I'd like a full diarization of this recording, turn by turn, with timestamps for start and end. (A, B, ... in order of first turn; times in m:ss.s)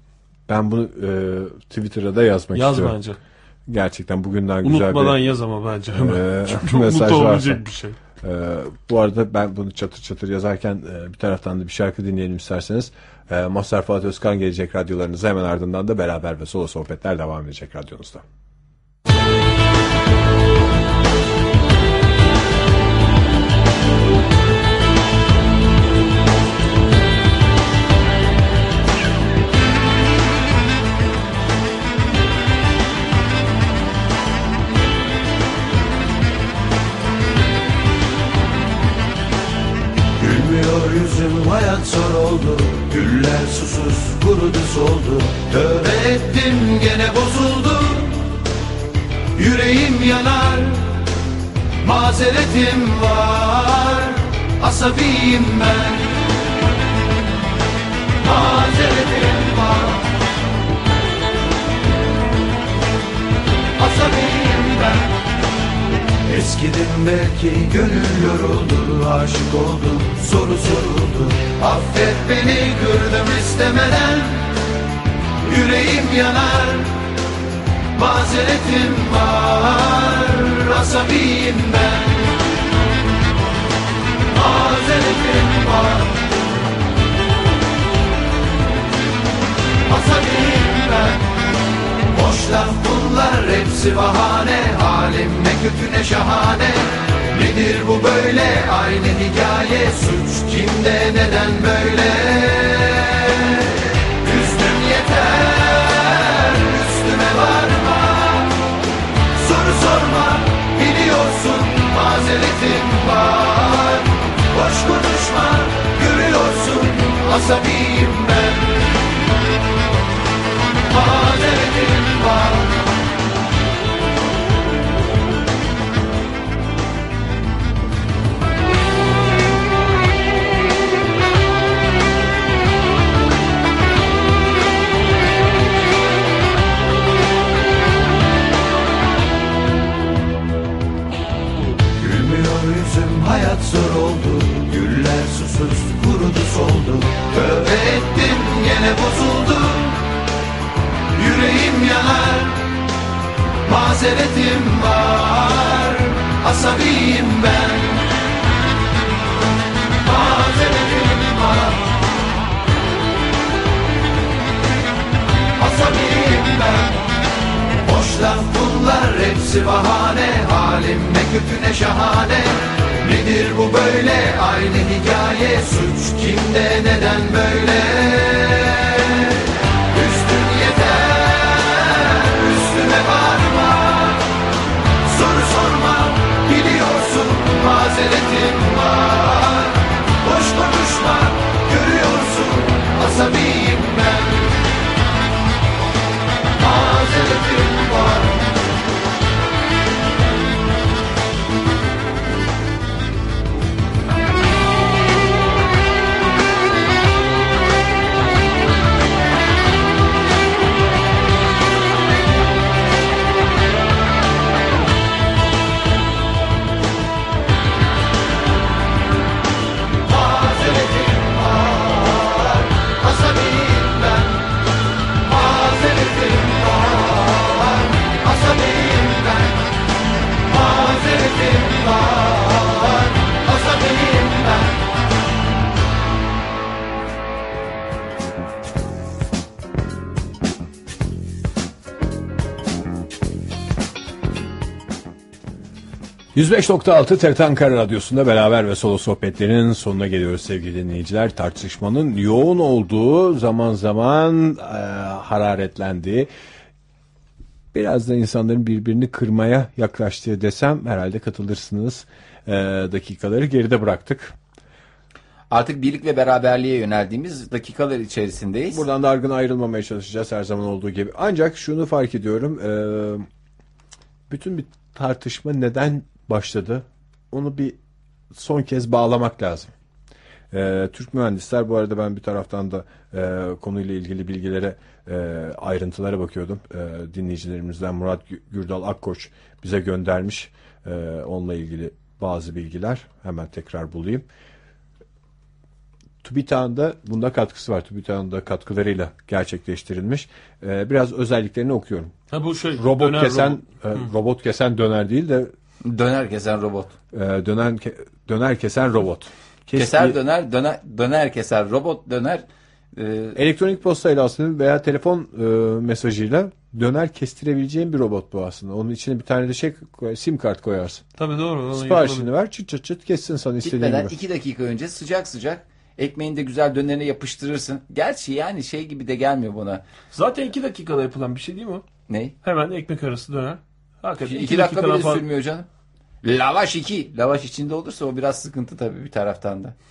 0:00.5-0:03.0 A
0:02.5-0:03.2 B
0:03.7-0:05.2 A
0:04.6-0:08.0 B
0:05.9-0:07.6 A
0:08.2-0:18.2 A
0:40.2-0:48.1 C
0:49.4-0:50.8 C
0:51.8-0:56.0 C
0:58.3-0:59.9 C
1:04.0-1:04.8 C
1:06.3-1:14.4 C
1:15.5-1:16.9 C
1:18.0-1:22.2 C
1:24.4-1:26.1 C
1:29.9-1:31.2 C
1:32.1-1:43.2 C
1:44.2-1:48.5 C
1:49.4-1:58.7 C
2:00.9-2:02.6 C
2:22.0-2:29.9 C
2:31.2-2:32.6 C
2:33.7-2:38.0 C
2:40.0-2:41.7 C
2:45.6-2:46.9 C
2:47.9-2:59.0 C
2:59.9-3:04.2 C
3:05.1-3:09.7 C
3:10.2-3:14.4 C
3:16.6-3:18.2 C
3:40.3-3:41.7 C
3:43.2-3:44.0 C
3:45.4-3:47.1 C
3:48.5-3:49.2 C
3:50.6-3:52.7 C
3:53.7-3:54.5 C
4:06.3-4:16.3 A
4:17.7-4:24.3 A
4:25.5-4:28.8 D
4:28.7-4:33.2 A
4:34.3-4:37.8 A
4:38.3-4:39.7 A
4:40.5-4:54.2 A
4:56.2-5:02.1 A
5:02.3-5:04.1 B
5:02.8-5:05.5 A
5:05.8-5:06.9 D
5:07.1-5:10.2 A
5:09.7-5:13.4 D
5:13.3-5:21.0 A
5:21.2-5:22.3 B
5:21.7-5:24.1 A
5:23.6-5:29.8 D
5:30.1-5:31.8 B
5:32.1-5:32.3 D
5:32.4-5:35.2 B
5:34.2-5:35.7 D
5:36.2-5:39.7 D